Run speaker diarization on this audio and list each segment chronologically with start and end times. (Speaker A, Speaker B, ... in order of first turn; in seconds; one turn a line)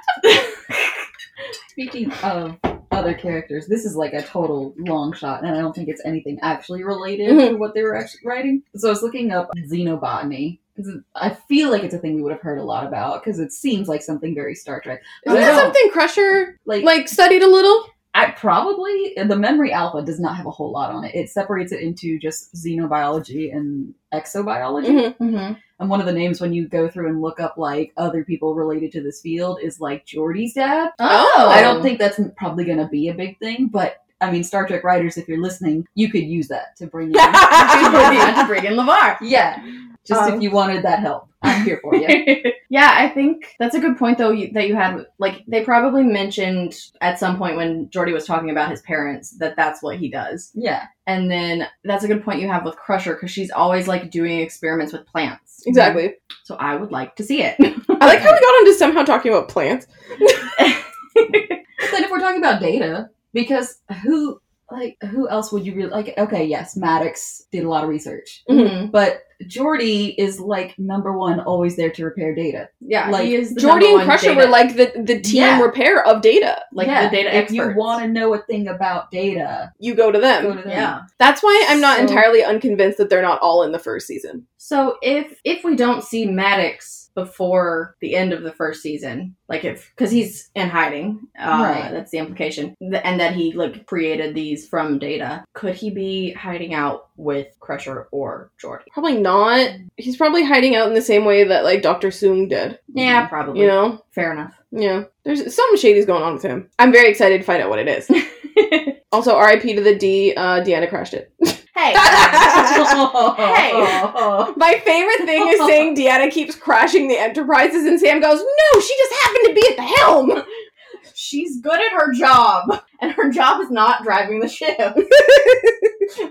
Speaker A: 1.7-15.8
Speaker B: 7.2-7.5
Speaker B: 15.2-17.9
Speaker C: 15.3-15.7
Speaker A: 18.1-25.1
Speaker B: 24.8-25.1
Speaker C: 25.2-25.6
Speaker A: 25.8-38.5
Speaker C: 31.0-31.9
Speaker B: 31.1-31.7
Speaker C: 37.5-39.2
Speaker A: 39.2-42.4
Speaker C: 40.1-40.6
Speaker C: 41.9-50.5
Speaker A: 50.5-50.9
Speaker C: 51.0-58.2
Speaker B: 55.7-56.1
Speaker A: 55.7-56.0
Speaker B: 58.0-60.5
Speaker A: 58.1-58.4
Speaker C: 60.6-61.5
Speaker A: 61.8-73.4
Speaker C: 68.5-68.9
Speaker C: 72.8-74.7
Speaker B: 73.5-76.6
Speaker C: 75.2-75.7
Speaker C: 76.7-78.0
Speaker A: 76.8-79.7
Speaker B: 79.8-80.5
Speaker A: 80.4-80.9
Speaker C: 80.6-81.0
Speaker B: 81.2-84.4
Speaker C: 81.9-82.2
Speaker C: 84.6-98.8
Speaker A: 91.5-91.9
Speaker B: 98.9-102.8
Speaker C: 102.9-104.6
Speaker A: 103.0-103.3
Speaker B: 103.5-104.0
Speaker B: 104.7-108.1
Speaker C: 108.1-108.9
Speaker B: 109.1-112.9
Speaker C: 111.7-114.4
Speaker A: 112.0-114.5
Speaker B: 114.5-120.4
Speaker A: 115.2-115.8
Speaker C: 121.1-125.1